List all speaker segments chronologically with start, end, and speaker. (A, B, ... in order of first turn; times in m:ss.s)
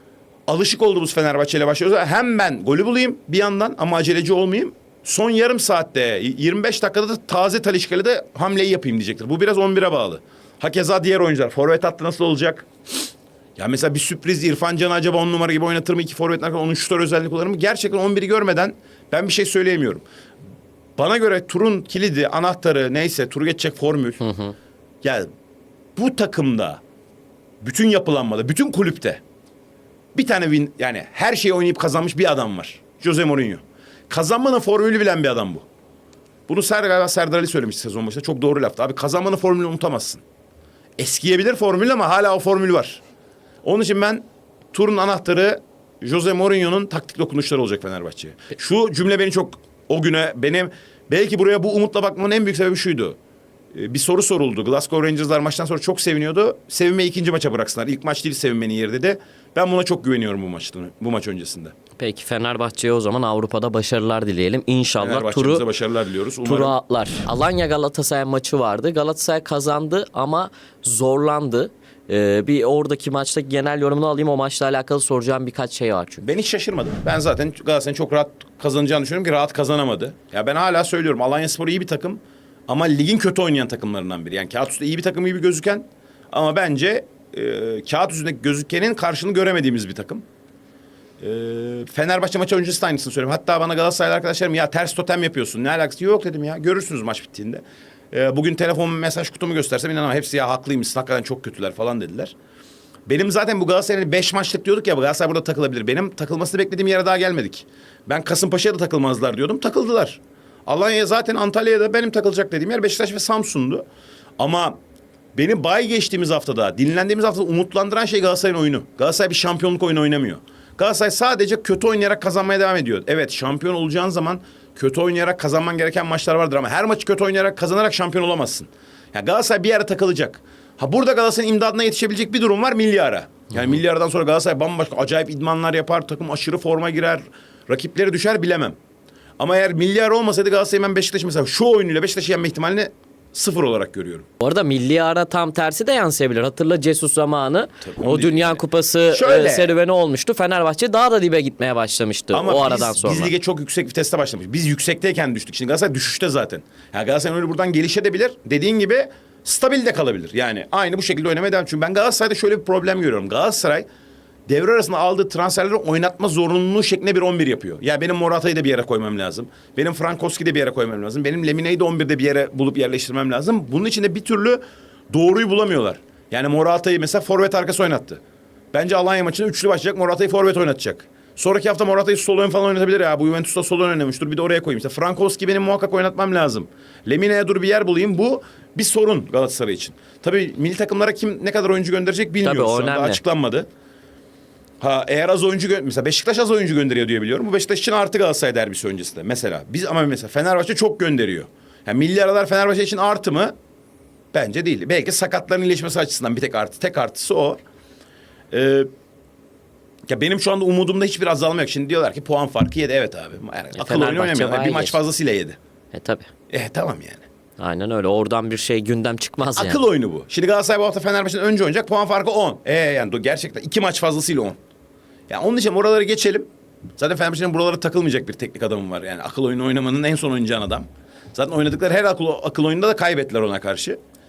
0:00.5-0:12.7 A
0:13.6-0:20.0 A
0:21.0-0:24.3 A
0:24.2-0:24.5 B
0:25.0-0:25.3 A
0:26.0-0:26.8 A
0:27.6-0:29.2 A
0:30.1-0:35.6 A
0:36.5-0:40.2 A
0:41.0-0:43.0 A
0:43.6-0:53.2 A
0:53.7-1:01.7 A
1:02.0-1:05.6 B
1:05.0-1:06.8 A
1:06.4-1:16.2 B
1:16.2-1:30.2 A
1:31.2-1:42.3 A
1:43.1-1:53.8 A
1:54.4-1:54.8 A
1:55.3-2:18.8 A
2:19.4-2:24.3 A
2:24.4-2:33.3 B
2:27.8-2:29.7 A
2:32.3-2:43.8 A
2:44.5-2:58.2 A
2:58.7-3:13.7 A
3:12.4-3:13.2 B
3:14.8-3:23.5 A
3:24.3-3:27.6 A
3:28.5-3:28.9 A
3:30.1-3:35.6 A
3:33.8-3:35.0 B
3:35.9-3:36.3 B
3:36.5-3:37.2 A
3:37.6-3:39.8 B
3:39.5-3:44.6 A
3:45.3-3:54.0 A